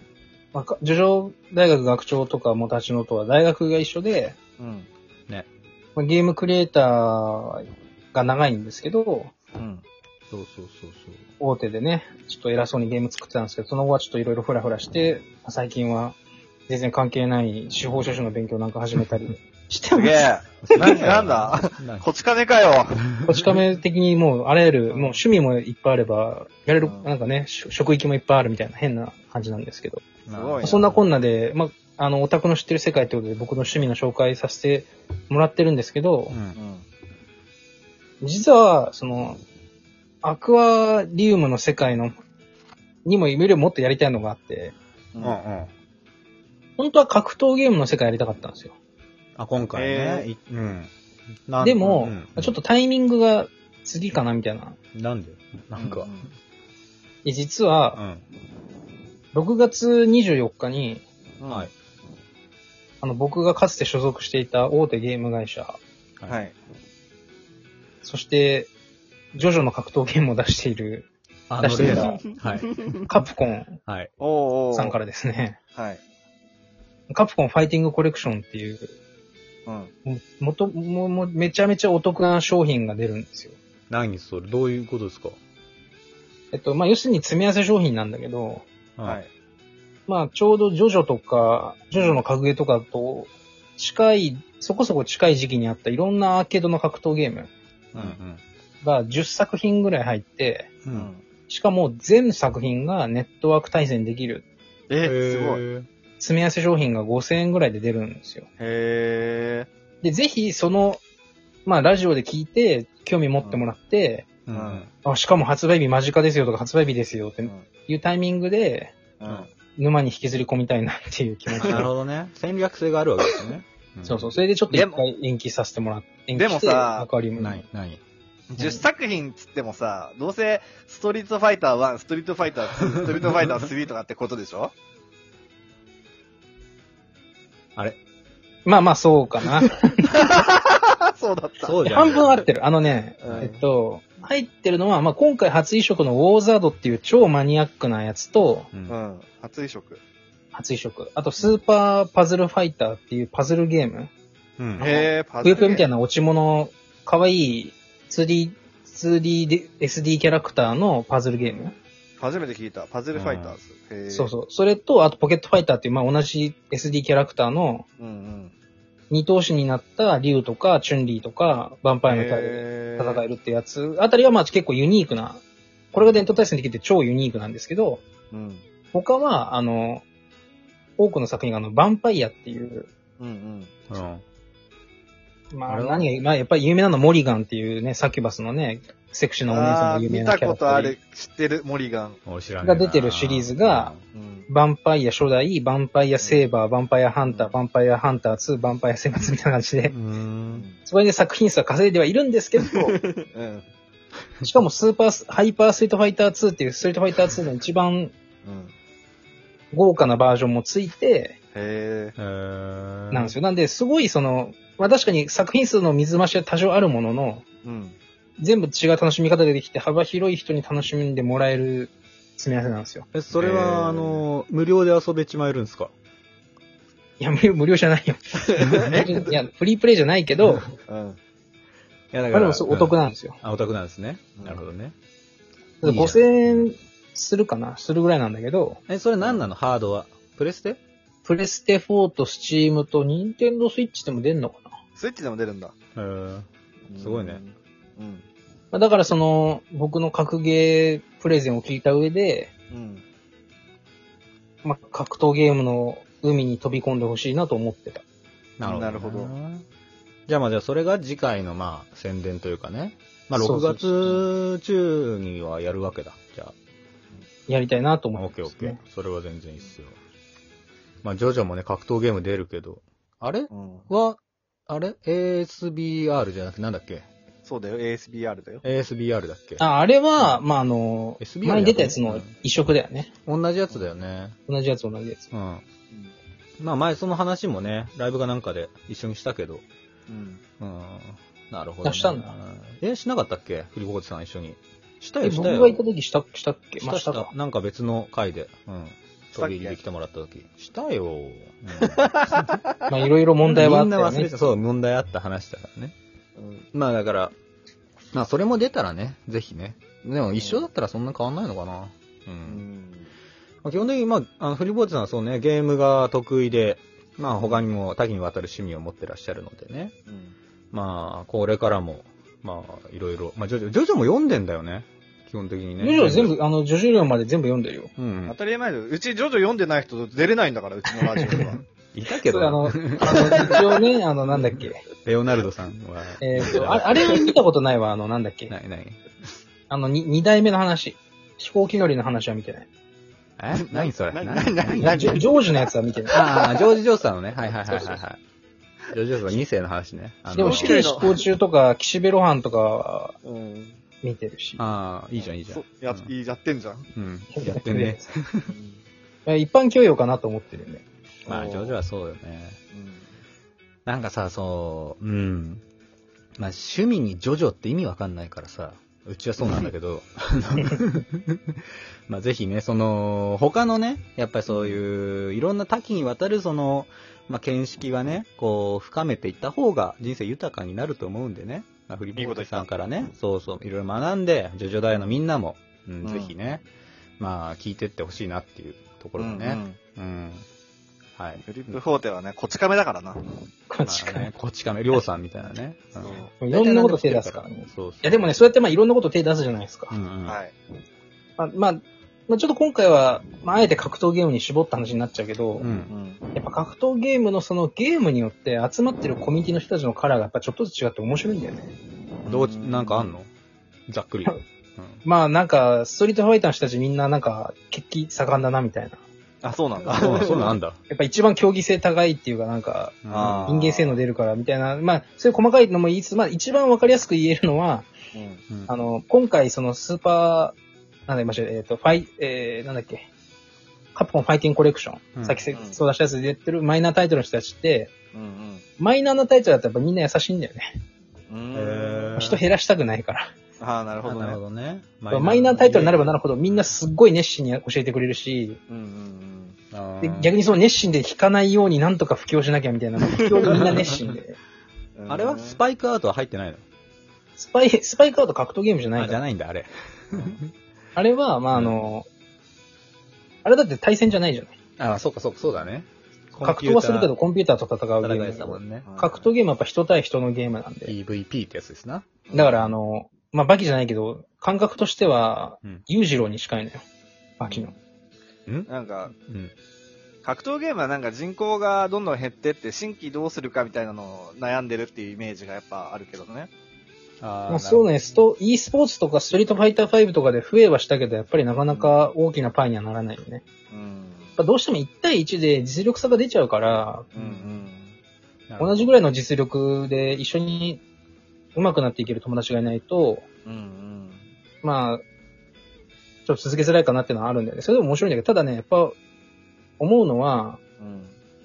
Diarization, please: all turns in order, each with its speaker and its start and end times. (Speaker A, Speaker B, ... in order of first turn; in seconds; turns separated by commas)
Speaker A: 0.5-4.4, Speaker B: 4.6-4.9, Speaker A: 6.0-9.3, Speaker B: 9.6-9.8, Speaker C: 10.3-11.2, Speaker A: 11.4-16.2, Speaker A: 16.7-20.3, Speaker B: 19.9-23.0, Speaker C: 20.6-22.1, Speaker C: 23.1-23.6, Speaker A: 23.2-30.0, Speaker B: 24.9-25.2, Speaker B: 26.8-27.1, Speaker C: 30.2-31.0, Speaker B: 30.3-30.9, Speaker A: 30.6-36.4, Speaker C: 36.3-36.6, Speaker B: 36.5-36.8, Speaker A: 38.2-39.4, Speaker A: 40.2-42.1, Speaker A: 43.0-44.7, Speaker B: 45.1-45.4, Speaker C: 45.2-45.7, Speaker A: 46.8-48.8, Speaker C: 49.4-50.9, Speaker B: 49.7-50.3, Speaker C: 51.5-52.5, Speaker A: 51.6-54.8, Speaker C: 54.9-56.1, Speaker B: 55.8-56.3, Speaker A: 57.2-58.0, Speaker C: 58.0-58.2, Speaker A: 59.3-61.0, Speaker B: 61.4-61.7, Speaker A: 63.0-65.8, Speaker B: 66.3-66.5, Speaker A: 68.0-68.7, Speaker A: 69.3-72.2, Speaker C: 71.5-72.8, Speaker A: 73.1-73.8, Speaker C: 73.8-74.1, Speaker B: 74.2-75.0, Speaker A: 74.7-75.6, Speaker B: 75.7-76.0, Speaker A: 77.1-79.0, Speaker B: 79.7-79.9, Speaker A: 80.0-83.6, Speaker C: 83.9-85.4, Speaker A: 86.5-88.7, Speaker B: 89.0-89.3, Speaker A: 90.1-97.5, Speaker B: 92.0-92.2, Speaker B: 97.9-98.2, Speaker C: 97.9-98.4, Speaker A: 98.8-100.7, Speaker B: 100.9-101.2, Speaker A: 101.5-104.5, Speaker B: 104.9-105.6, Speaker C: 105.0-105.9, Speaker A: 106.2-108.5, Speaker B: 108.6-109.7, Speaker A: 110.0-111.0, Speaker A: 111.6-114.3, Speaker C: 114.5-114.9, Speaker B: 114.5-114.8, Speaker A: 115.0-118.9, Speaker B: 119.2-119.5, Speaker A: 119.8-121.9, Speaker C: 121.6-124.4, Speaker A: 124.0-127.6, Speaker B: 124.7-125.0, Speaker B: 126.3-127.1, Speaker C: 127.3-128.0, Speaker B: 128.5-134.7, Speaker A: 138.6-140.1, Speaker B: 140.1-142.3, Speaker C: 141.6-142.4, Speaker A: 141.8-148.7, Speaker B: 143.2-143.6, Speaker C: 143.3-143.5, Speaker B: 148.9-150.0, Speaker A: 150.5-154.1, Speaker C: 154.6-154.8, Speaker A: 154.8-161.7, Speaker B: 154.8-155.8, Speaker B: 161.4-164.3, Speaker C: 163.1-163.6, Speaker A: 164.1-167.8, Speaker B: 168.0-168.5, Speaker A: 169.1-178.0, Speaker B: 172.1-173.2, Speaker B: 178.3-178.6, Speaker A: 178.9-180.0, Speaker A: 181.0-182.9, Speaker B: 183.2-183.7, Speaker C: 183.9-184.2, Speaker A: 185.5-190.9, Speaker C: 185.7-186.1, Speaker B: 189.4-192.2, Speaker C: 192.2-194.0, Speaker A: 192.6-193.9, Speaker B: 194.1-194.5, Speaker A: 194.5-199.9, Speaker B: 197.3-197.6, Speaker C: 199.9-200.6, Speaker B: 200.5-200.8, Speaker A: 200.8-203.0, Speaker B: 202.8-203.6, Speaker A: 204.4-208.1, Speaker B: 208.4-208.7, Speaker A: 209.7-211.4, Speaker B: 211.5-212.2, Speaker C: 212.2-213.3, Speaker A: 213.1-217.4, Speaker B: 217.6-217.9, Speaker A: 218.4-223.1, Speaker C: 223.1-225.9, Speaker B: 223.3-224.2, Speaker A: 227.2-230.7, Speaker B: 228.6-229.3, Speaker C: 228.8-229.1, Speaker B: 230.9-231.2, Speaker C: 232.1-234.9, Speaker A: 232.3-233.4, Speaker A: 235.8-238.8, Speaker C: 235.8-236.7, Speaker C: 238.9-240.8, Speaker B: 239.2-239.5, Speaker A: 241.2-244.7, Speaker B: 245.0-245.7, Speaker C: 245.9-246.5, Speaker B: 246.9-248.2, Speaker C: 247.0-247.4, Speaker A: 248.7-252.5, Speaker B: 252.7-253.0, Speaker A: 254.6-258.0, Speaker C: 258.6-259.6, Speaker B: 258.6-259.3, Speaker C: 260.3-266.5, Speaker A: 263.3-264.2, Speaker A: 267.5-268.8, Speaker C: 268.1-270.0, Speaker C: 271.0-277.1, Speaker B: 273.5-273.9, Speaker B: 277.4-278.6, Speaker C: 278.6-279.6, Speaker A: 279.6-283.1, Speaker C: 281.2-282.3, Speaker C: 283.2-284.4, Speaker A: 284.5-285.3, Speaker C: 285.3-285.6, Speaker C: 286.6-289.6, Speaker B: 290.1-290.4, Speaker C: 290.6-295.8, Speaker A: 291.8-292.3, Speaker A: 295.2-297.3, Speaker C: 296.8-302.5, Speaker B: 299.3-299.8, Speaker B: 301.8-302.7, Speaker A: 302.9-304.3, Speaker C: 303.4-305.9, Speaker B: 306.4-306.6, Speaker C: 306.7-307.3, Speaker C: 308.1-312.6, Speaker B: 310.4-310.7, Speaker B: 312.4-313.1, Speaker C: 313.6-319.9, Speaker B: 317.3-317.6, Speaker B: 320.1-320.4, Speaker C: 320.7-326.4, Speaker A: 325.8-327.9, Speaker C: 328.0-328.3, Speaker B: 328.3-331.6, Speaker C: 331.3-333.6, Speaker A: 332.2-334.8, Speaker B: 333.0-333.7, Speaker C: 335.0-337.3, Speaker A: 336.2-338.5, Speaker C: 338.5-339.1, Speaker A: 339.7-342.7, Speaker C: 343.4-345.0, Speaker B: 343.5-346.5, Speaker A: 344.8-346.2, Speaker C: 346.1-348.2, Speaker A: 347.7-348.0, Speaker C: 348.9-351.0, Speaker A: 350.3-353.1, Speaker B: 350.4-351.2, Speaker B: 353.2-353.8, Speaker A: 354.0-354.6, Speaker C: 354.6-356.1, Speaker B: 355.2-356.9, Speaker C: 356.9-358.5, Speaker A: 357.3-358.1, Speaker B: 358.5-358.8, Speaker A: 359.2-360.8, Speaker B: 361.2-361.8, Speaker C: 361.2-362.6, Speaker B: 362.7-363.1, Speaker C: 363.9-365.6, Speaker C: 366.4-386.6, Speaker B: 374.5-374.8, Speaker B: 382.1-382.7, Speaker B: 386.0-386.3, Speaker C: 387.2-390.4, Speaker B: 389.2-389.8, Speaker C: 391.2-391.8, Speaker B: 391.4-393.4, Speaker A: 393.7-394.3, Speaker C: 393.8-398.2, Speaker B: 395.4-396.3, Speaker A: 396.4-399.9, Speaker C: 399.9-400.4, Speaker B: 400.2-400.5, Speaker A: 401.4-405.7, Speaker C: 405.6-405.9, Speaker B: 405.9-406.3, Speaker A: 406.3-411.7, Speaker B: 412.2-413.1, Speaker C: 412.3-413.3, Speaker C: 413.9-415.0, Speaker A: 415.0-419.0, Speaker B: 419.4-420.6, Speaker C: 419.8-420.8, Speaker A: 420.9-427.9, Speaker C: 423.0-423.6, Speaker B: 423.1-424.0, Speaker B: 428.1-428.4, Speaker A: 428.7-430.6, Speaker A: 431.1-433.1, Speaker A: 433.9-437.9, Speaker C: 435.1-435.5, Speaker B: 435.5-435.8, Speaker B: 438.1-438.6, Speaker A: 438.8-440.8, Speaker B: 441.3-442.2, Speaker C: 441.5-442.4, Speaker A: 442.2-443.3, Speaker B: 443.6-444.4, Speaker C: 444.0-446.1, Speaker A: 445.1-448.6, Speaker B: 448.7-449.6, Speaker C: 449.7-450.4, Speaker A: 450.0-454.4, Speaker B: 453.3-453.8, Speaker C: 453.5-453.8, Speaker B: 454.9-455.6, Speaker C: 455.1-456.6, Speaker A: 457.4-459.2, Speaker C: 458.9-460.5, Speaker A: 460.9-462.1, Speaker C: 461.5-461.8, Speaker A: 463.4-464.5, Speaker C: 464.8-467.1, Speaker A: 466.4-470.9, Speaker C: 468.0-468.9, Speaker B: 468.8-469.2, Speaker C: 470.9-472.7, Speaker B: 472.3-472.6, Speaker A: 472.3-476.8, Speaker A: 477.4-477.7, Speaker B: 477.4-477.7, Speaker C: 478.5-479.5, Speaker B: 478.7-479.1, Speaker B: 480.2-486.5, Speaker C: 487.2-487.9, Speaker A: 487.5-493.4, Speaker B: 491.7-491.9, Speaker B: 493.7-494.3, Speaker A: 494.4-497.3, Speaker B: 497.1-497.9, Speaker C: 498.5-498.9, Speaker A: 498.6-500.8, Speaker A: 501.5-503.2, Speaker B: 503.4-504.2, Speaker A: 504.6-505.0, Speaker A: 506.2-508.9, Speaker A: 509.8-510.6, Speaker B: 510.8-511.1